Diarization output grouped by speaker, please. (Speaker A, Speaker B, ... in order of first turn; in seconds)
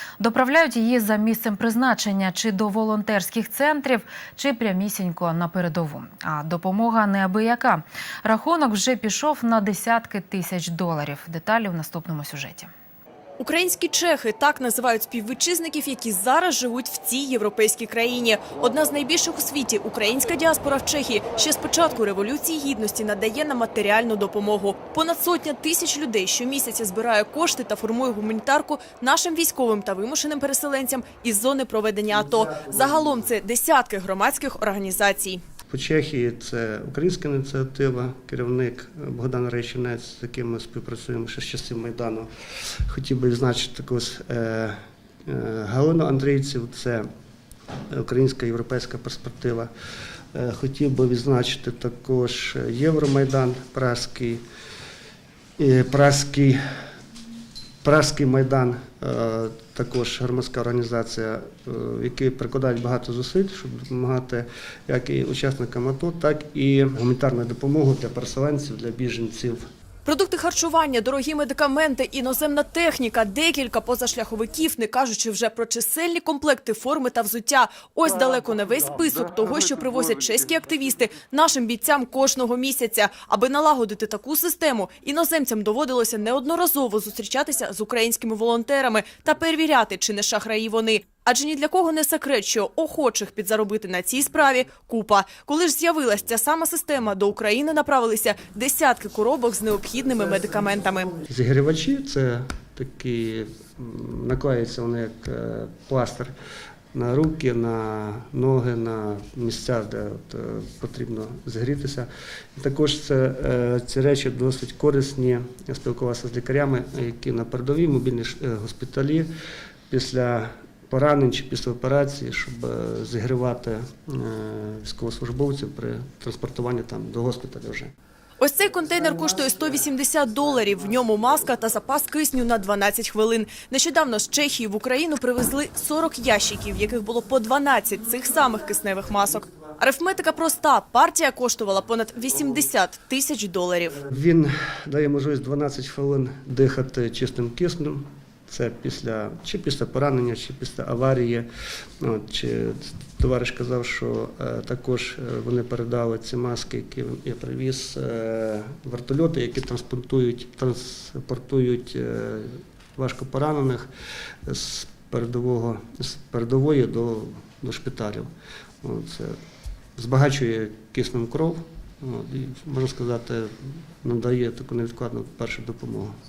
Speaker A: 0.2-12.7
Speaker B: 13.4-35.4, 70.0-101.2, 128.4-144.0
Speaker C: 35.7-47.1, 47.9-49.7, 50.3-54.4, 55.6-56.6, 57.8-69.6, 101.2-106.3, 106.9-119.3, 119.9-127.9, 144.1-151.5, 152.0-163.9, 164.5-168.3, 168.8-169.4, 170.0-176.1